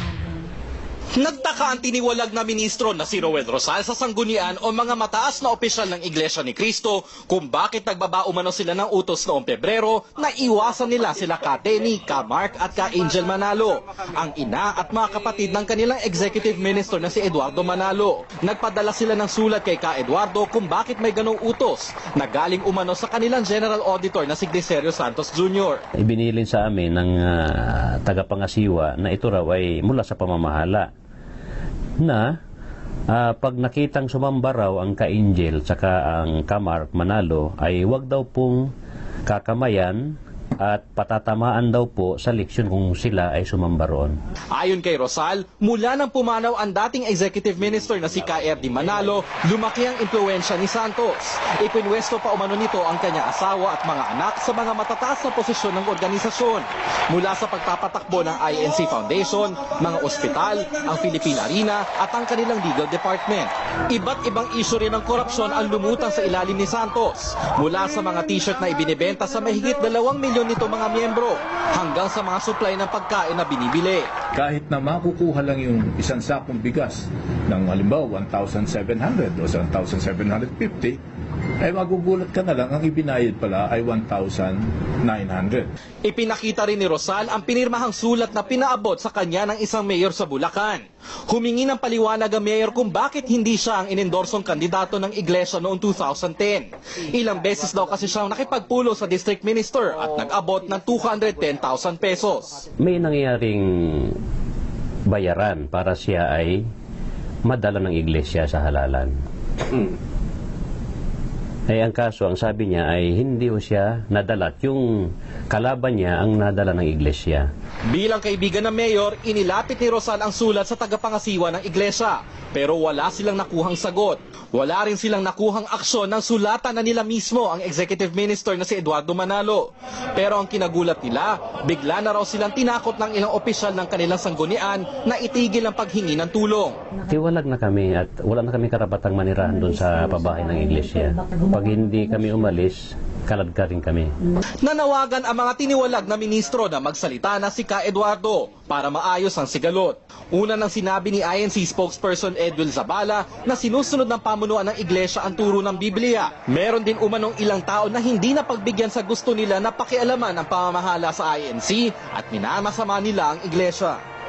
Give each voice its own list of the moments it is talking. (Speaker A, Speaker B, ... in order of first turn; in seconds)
Speaker A: 1.1-25.8, 44.5-74.1, 86.0-102.6, 117.9-136.8, 144.6-164.0
Speaker B: 26.0-30.9, 33.1-38.6, 39.3-40.0, 40.6-44.1, 102.8-104.2, 105.1-106.6, 107.5-109.1, 111.7-117.5, 137.1-144.1
Speaker C: 74.3-81.0, 81.6-85.7